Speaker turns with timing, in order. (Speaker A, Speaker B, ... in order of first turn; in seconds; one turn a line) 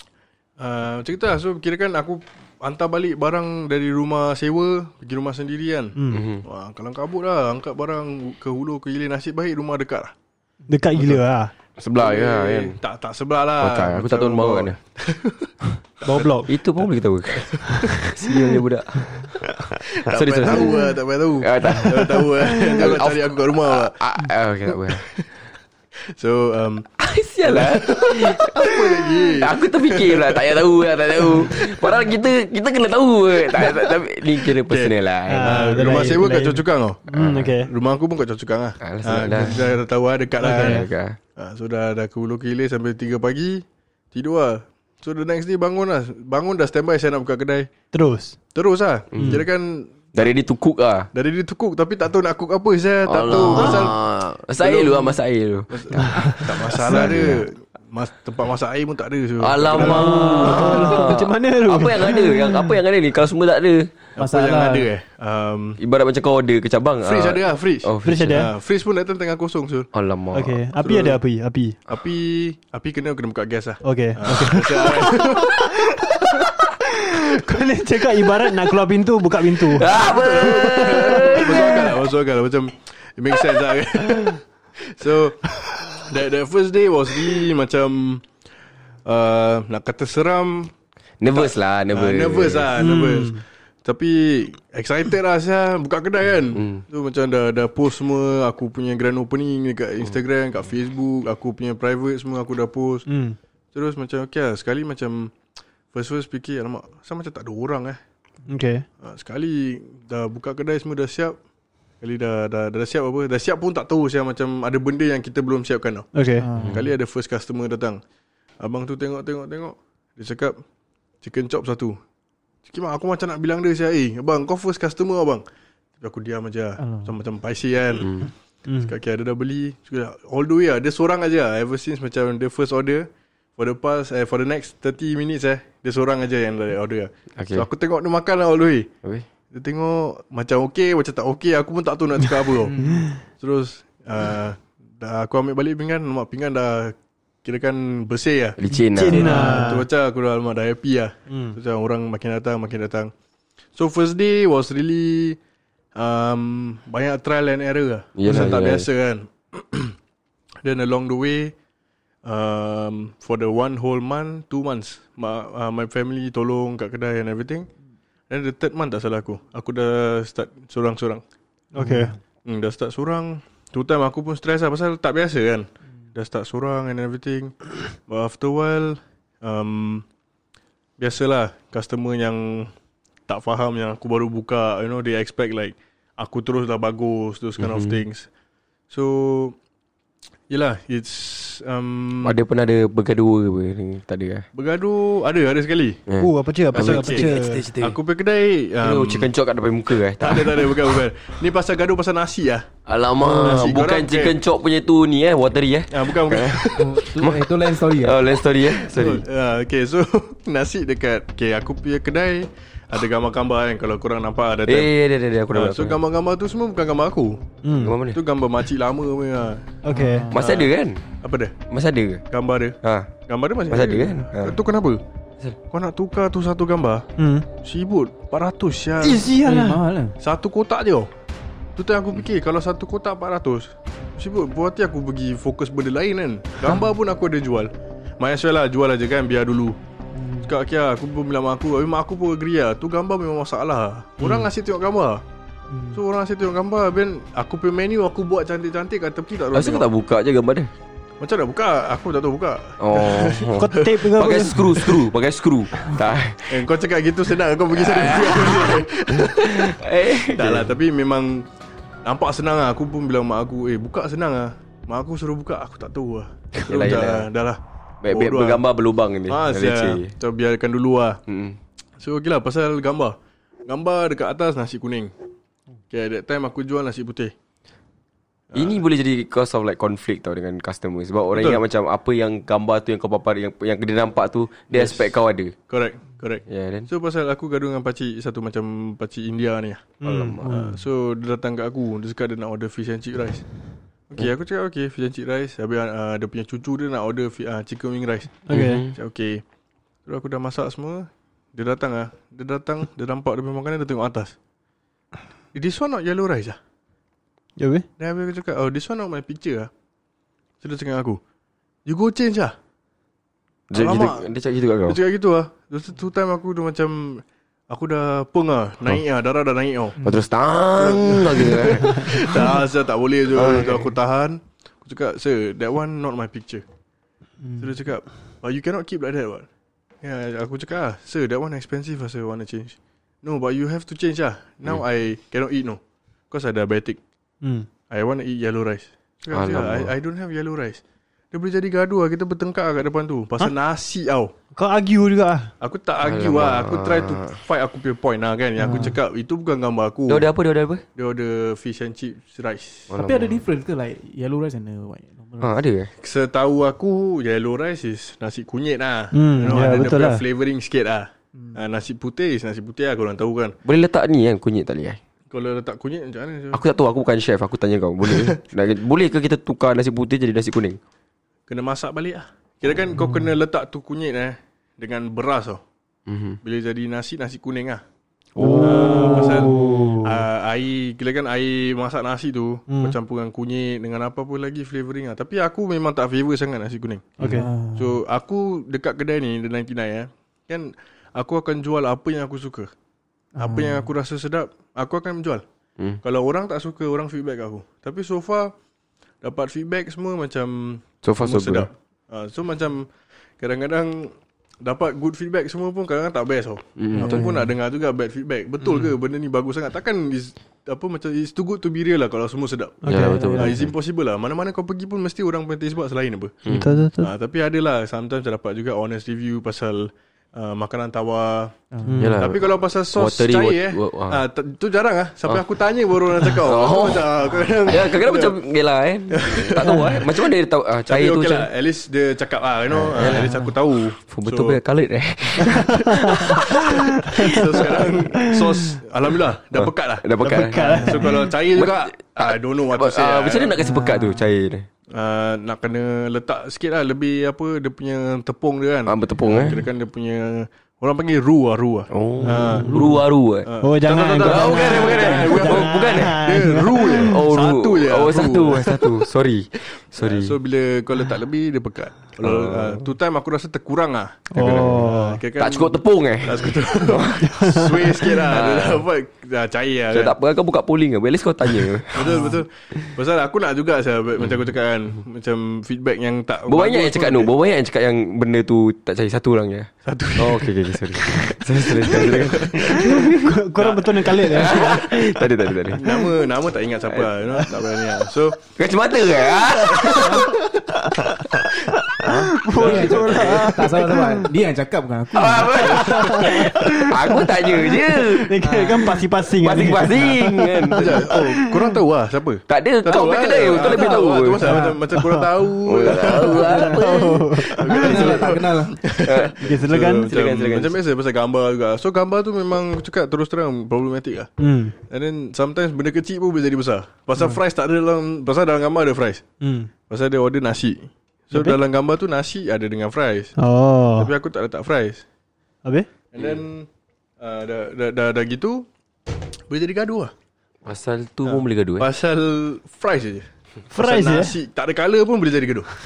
Speaker A: 0.6-10.1
Speaker B: 6.0-6.2
Speaker C: 6.1-6.5
Speaker B: 10.7-11.5
Speaker C: 11.8-12.8
Speaker A: 12.0-16.4
Speaker C: 13.6-14.8
Speaker B: 16.0-16.5
Speaker C: 16.5-20.9
Speaker A: 17.4-17.9
Speaker A: 20.0-24.0
Speaker C: 21.4-25.2
Speaker B: 21.6-22.8
Speaker A: 24.7-25.3
Speaker A: 26.1-26.9
Speaker C: 27.0-36.2
Speaker A: 27.4-30.6
Speaker A: 31.2-31.7
Speaker A: 34.6-37.0
Speaker B: 35.3-37.7
Speaker C: 37.1-37.5
Speaker A: 37.6-47.7
Speaker C: 38.8-39.6
Speaker B: 40.4-40.8
Speaker C: 40.5-41.2
Speaker B: 47.9-48.4
Speaker A: 48.5-50.3
Speaker C: 49.1-49.5
Speaker B: 49.2-49.4
Speaker C: 50.1-51.1
Speaker A: 51.1-54.0
Speaker C: 53.1-57.5
Speaker B: 53.5-53.9
Speaker A: 54.6-55.2
Speaker A: 55.7-61.0
Speaker B: 56.0-57.0
Speaker C: 59.4-63.9
Speaker B: 59.8-62.7
Speaker A: 64.2-65.8
Speaker D: 64.2-64.9
Speaker C: 65.8-68.5
Speaker A: 67.0-69.9
Speaker B: 68.0-68.5
Speaker C: 69.9-70.6
Speaker B: 70.3-71.8
Speaker A: 70.8-71.2
Speaker A: 71.9-76.3
Speaker B: 73.8-80.0
Speaker C: 79.5-82.0
Speaker A: 79.8-88.2
Speaker B: 80.7-81.3
Speaker A: 89.0-90.7
Speaker C: 91.2-92.7
Speaker A: 91.3-103.1
Speaker B: 92.8-93.4
Speaker C: 96.5-96.8
Speaker B: 103.1-103.4
Speaker A: 103.7-105.3
Speaker A: 105.9-108.0
Speaker B: 108.5-108.9
Speaker A: 109.0-111.4
Speaker A: 112.0-116.1
Speaker B: 116.1-116.5
Speaker D: 116.4-116.8
Speaker C: 116.6-116.9
Speaker A: 116.6-118.0
Speaker A: 118.6-120.6
Speaker A: 121.2-122.0
Speaker A: 122.7-125.4
Speaker A: 126.0-128.2
Speaker D: 126.8-127.2
Speaker C: 128.0-128.3
Speaker B: 128.7-128.9
Speaker A: 128.8-138.9
Speaker C: 137.4-137.7
Speaker A: 139.5-142.8
Speaker D: 142.6-143.1
Speaker B: 142.8-143.2
Speaker A: 143.3-148.6
Speaker C: 148.6-149.6
Speaker D: 148.7-149.8
Speaker B: 148.9-149.9
Speaker A: 149.3-153.1
Speaker B: 151.3-151.6
Speaker A: 153.8-155.4
Speaker A: 156.0-160.0
Speaker C: 158.2-158.9
Speaker A: 160.6-161.6
Speaker A: 162.2-167.7
Speaker A: 168.3-171.2
Speaker B: 171.7-172.2
Speaker D: 171.8-172.1
Speaker A: 172.4-180.1
Speaker A: 181.0-182.7
Speaker A: 183.3-188.3
Speaker C: 187.6-188.0
Speaker A: 188.9-189.6
Speaker A: 190.5-192.4
Speaker C: 192.2-194.5
Speaker A: 194.5-196.0
Speaker C: 196.1-197.9
Speaker B: 196.2-197.7
Speaker A: 196.7-199.3
Speaker C: 198.8-201.0
Speaker A: 200.2-202.7
Speaker C: 202.9-209.2
Speaker A: 203.2-204.4
Speaker A: 205.9-206.9
Speaker D: 206.8-208.2
Speaker A: 208.7-214.9
Speaker C: 214.7-216.0
Speaker A: 215.5-217.6
Speaker B: 217.6-218.0
Speaker C: 217.7-218.2
Speaker A: 218.1-219.8
Speaker B: 219.8-220.3
Speaker D: 219.9-220.4
Speaker C: 220.3-221.0
Speaker A: 220.3-221.6
Speaker C: 221.7-222.2
Speaker A: 222.3-225.0
Speaker C: 222.8-223.1
Speaker C: 223.7-224.6
Speaker A: 225.7-227.1
Speaker B: 227.2-227.5
Speaker A: 227.6-229.2
Speaker B: 229.0-229.9
Speaker D: 229.4-230.2
Speaker A: 230.2-231.1
Speaker A: 231.8-239.8
Speaker D: 240.1-240.5
Speaker A: 240.4-245.2
Speaker D: 245.7-246.0
Speaker A: 245.9-249.9
Speaker C: 249.5-250.7
Speaker A: 251.2-254.1
Speaker C: 252.8-256.7
Speaker B: 253.6-255.0
Speaker A: 256.5-261.5
Speaker C: 257.7-260.7
Speaker A: 262.0-268.6
Speaker C: 266.6-267.3
Speaker C: 268.0-270.1
Speaker A: 269.3-271.2
Speaker C: 271.3-271.6
Speaker A: 272.0-275.1
Speaker A: 275.9-277.3
Speaker A: 278.5-278.8
Speaker C: 278.5-285.6
Speaker A: 281.3-281.6
Speaker A: 284.7-285.1
Speaker A: 285.7-293.4
Speaker C: 286.5-286.9
Speaker B: 290.0-290.8
Speaker C: 290.0-290.6
Speaker A: 294.1-299.4
Speaker B: 298.5-298.8
Speaker C: 298.5-298.9
Speaker A: 300.1-304.4
Speaker A: 305.5-306.6
Speaker B: 307.6-307.9
Speaker A: 308.0-309.7
Speaker A: 310.6-311.2
Speaker A: 311.9-312.5
Speaker C: 313.7-315.0
Speaker A: 313.7-314.3
Speaker A: 314.9-320.0
Speaker C: 320.0-322.5
Speaker A: 320.8-326.6
Speaker C: 323.3-323.9
Speaker D: 327.4-327.7
Speaker A: 327.6-329.5
Speaker A: 330.0-337.0
Speaker B: 337.4-337.7
Speaker A: 337.9-344.3
Speaker C: 339.3-339.9
Speaker B: 344.5-345.5
Speaker A: 345.6-350.3
Speaker C: 346.0-347.4
Speaker B: 348.6-348.9
Speaker D: 348.6-348.9
Speaker C: 350.1-350.8
Speaker A: 351.0-352.9
Speaker C: 352.9-353.5
Speaker D: 353.0-355.5
Speaker C: 355.4-355.9
Speaker A: 356.0-363.6
Speaker B: 359.1-360.2
Speaker D: 361.3-361.6
Speaker C: 363.6-365.0
Speaker A: 365.3-366.6
Speaker C: 366.5-370.8
Speaker A: 368.0-368.4
Speaker A: 371.5-375.6
Speaker C: 376.1-376.4
Speaker A: 376.4-377.8
Speaker B: 378.4-380.2
Speaker A: 378.4-392.7
Speaker C: 378.4-379.4
Speaker B: 382.7-383.0
Speaker B: 387.2-387.5
Speaker D: 387.2-388.0
Speaker D: 393.4-393.9
Speaker A: 393.4-395.4
Speaker A: 396.0-398.5
Speaker A: 399.2-416.5
Speaker C: 401.0-401.7
Speaker C: 406.8-407.3
Speaker D: 407.0-407.4
Speaker B: 412.8-413.5
Speaker C: 412.9-413.7
Speaker D: 413.1-413.5
Speaker C: 416.4-416.8
Speaker B: 416.5-417.1
Speaker A: 417.0-421.6
Speaker D: 421.7-422.0
Speaker B: 421.9-422.2
Speaker C: 422.0-424.2
Speaker A: 422.2-428.4
Speaker C: 426.4-427.1
Speaker C: 427.7-431.5
Speaker A: 429.1-430.2
Speaker B: 429.7-429.9
Speaker A: 430.9-434.6
Speaker C: 432.7-433.3
Speaker D: 433.1-433.5
Speaker C: 434.1-438.0
Speaker A: 435.4-443.6
Speaker B: 435.6-438.8
Speaker C: 439.6-444.7
Speaker B: 440.2-441.3
Speaker B: 443.6-444.0
Speaker D: 443.6-444.0
Speaker A: 444.9-459.0
Speaker C: 448.9-449.6
Speaker C: 451.9-453.5
Speaker B: 452.2-453.0
Speaker B: 453.6-457.1
Speaker C: 454.2-460.4
Speaker A: 459.9-470.2
Speaker C: 462.2-462.9
Speaker B: 464.3-465.2
Speaker C: 464.4-464.8
Speaker C: 465.4-467.3
Speaker B: 467.2-468.1
Speaker C: 468.1-468.9
Speaker C: 469.9-472.2
Speaker A: 471.9-477.3
Speaker B: 472.1-472.3
Speaker C: 476.5-485.9
Speaker A: 479.9-484.9
Speaker B: 482.6-485.1
Speaker A: 485.7-488.4
Speaker B: 485.8-486.1
Speaker C: 486.9-487.4
Speaker C: 488.5-490.3
Speaker B: 489.7-494.3
Speaker A: 489.7-490.4
Speaker C: 492.0-493.5
Speaker A: 492.0-493.4
Speaker D: 492.5-496.1
Speaker C: 495.1-498.6
Speaker B: 495.7-501.6
Speaker D: 498.4-498.9
Speaker C: 499.4-501.1
Speaker A: 500.7-506.8
Speaker C: 502.5-504.5
Speaker D: 503.5-503.8
Speaker D: 504.4-504.8
Speaker B: 504.4-505.3
Speaker C: 505.6-508.4
Speaker D: 506.3-506.9
Speaker B: 506.5-508.1
Speaker A: 507.5-519.2
Speaker D: 507.7-508.8
Speaker C: 509.0-510.8
Speaker B: 509.4-510.1
Speaker B: 514.4-514.8
Speaker B: 519.4-519.7
Speaker A: 519.9-523.3
Speaker B: 521.3-521.6
Speaker B: 523.4-524.1
Speaker A: 524.0-525.0
Speaker A: 526.1-528.7
Speaker A: 529.5-530.1
Speaker C: 530.6-531.9
Speaker A: 531.2-535.7
Speaker B: 533.7-534.4